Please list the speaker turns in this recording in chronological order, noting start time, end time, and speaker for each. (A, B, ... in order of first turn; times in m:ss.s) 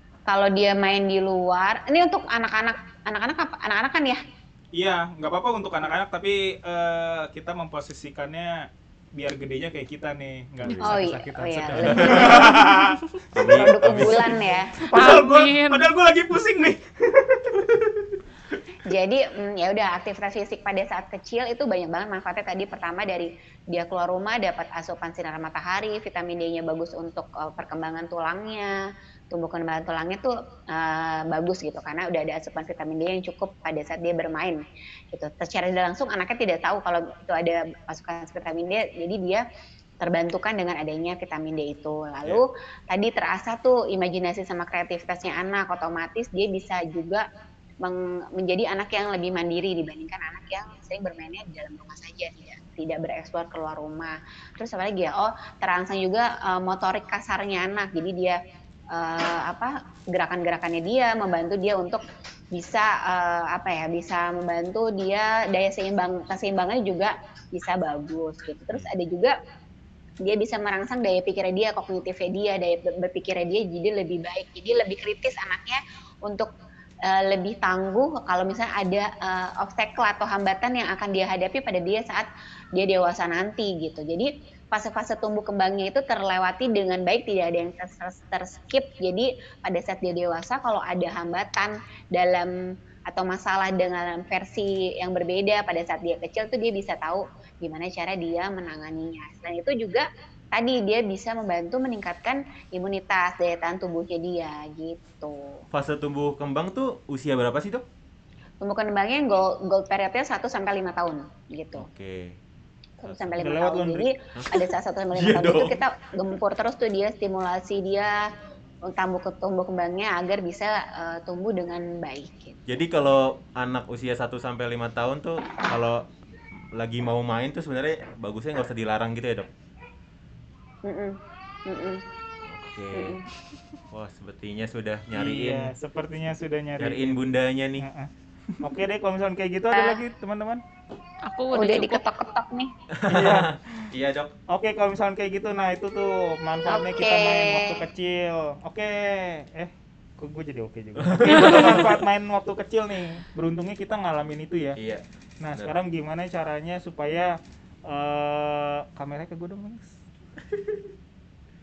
0:00.3-0:04.2 A
0:04.8-0:13.0 B
0:10.6-0:11.0 C
0:10.8-0:12.9 A
0:11.8-0:12.4 C
0:13.3-0:14.6 C
0:13.4-0:14.7 A
0:13.5-0:16.8 B
0:14.9-0:15.9 D
0:18.8-0:39.4 A
0:40.0-0:47.2 A
0:47.8-0:58.4 A
0:58.9-1:09.4 A
1:10.2-1:16.5 A
1:17.0-1:45.6 A
1:45.7-1:47.8 C
1:48.6-1:51.9 A
1:51.8-1:52.4 C
1:53.0-1:58.3 A
1:53.0-1:53.6 C
1:53.4-1:54.1 B
1:54.4-1:55.8 C
1:58.9-2:02.6 A
2:02.7-2:06.1 C
2:06.8-2:09.5 C
2:10.8-2:12.0 A
2:12.4-2:13.2 C
2:12.9-2:13.2 A
2:13.9-2:15.7 C
2:15.1-2:17.2 B
2:16.8-2:17.9 C
2:17.8-2:20.6 B
2:19.7-2:20.0 A
2:21.2-2:22.0 D
2:21.5-2:22.7 A
2:22.9-2:24.3 C
2:23.1-2:23.9 B
2:24.5-2:34.8 B
2:26.7-2:27.9 A
2:31.0-2:31.9 C
2:31.2-2:31.9 D
2:34.8-2:35.7 C
2:35.4-2:40.0 B
2:40.5-2:40.8 C